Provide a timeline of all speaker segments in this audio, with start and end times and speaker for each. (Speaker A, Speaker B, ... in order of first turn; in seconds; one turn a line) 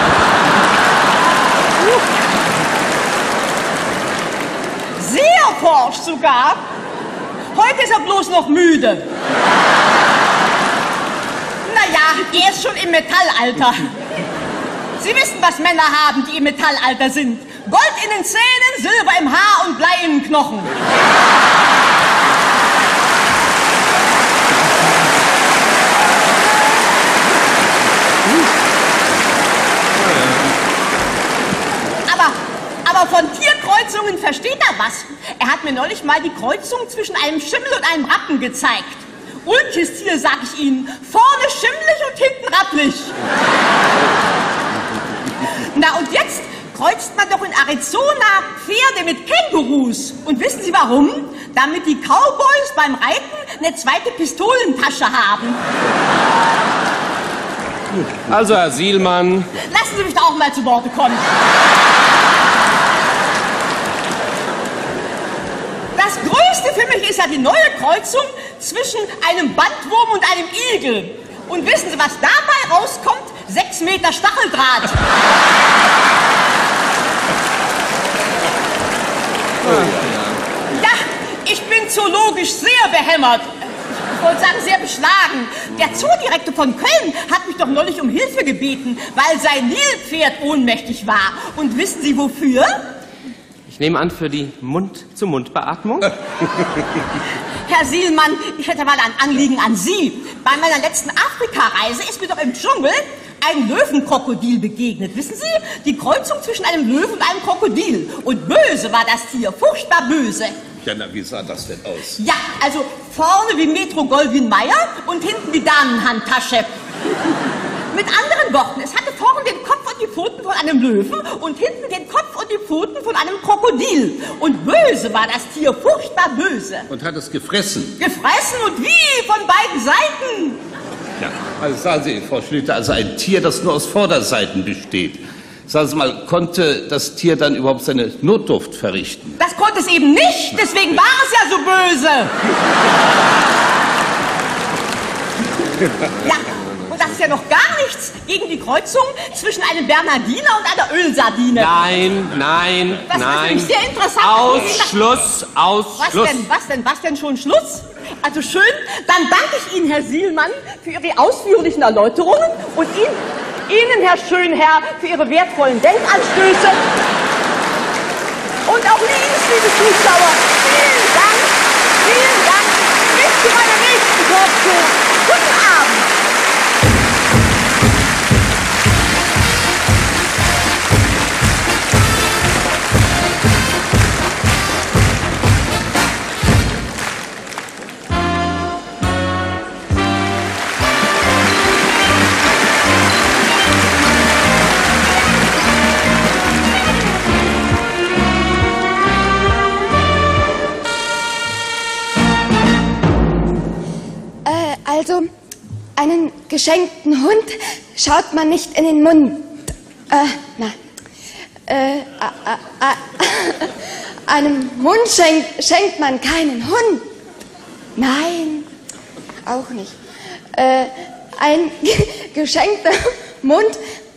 Speaker A: 5.0-6.6
Speaker A: 7.5-9.1
Speaker A: 11.7-13.9
Speaker A: 15.0-20.7
Speaker A: 32.1-43.1
Speaker A: 45.7-55.6
Speaker B: 57.9-59.5
Speaker A: 59.7-61.2
Speaker A: 66.0-75.0
Speaker C: 79.7-80.3
Speaker A: 80.8-83.5
Speaker A: 84.1-92.8
Speaker B: 93.7-96.1
Speaker A: 97.7-110.5
Speaker C: 110.8-112.2
Speaker A: 112.2-116.7
Speaker A: 117.9-126.8
Speaker A: 128.0-130.6
Speaker C: 131.2-135.2
Speaker C: 135.7-139.2
Speaker A: 139.4-142.3
Speaker A: 146.2-151.8
Speaker B: 151.5-156.5
Speaker A: 153.1-155.1
Speaker A: 156.0-166.8
Speaker A: 168.7-171.5
Speaker A: 172.0-176.0
Speaker D: 204.5-205.3
Speaker D: 206.0-209.5
Speaker D: 210.1-210.8
Speaker D: 211.7-213.7
Speaker D: 214.3-217.1
Speaker D: 218.0-218.7
Speaker D: 219.5-220.0
Speaker D: 220.5-223.8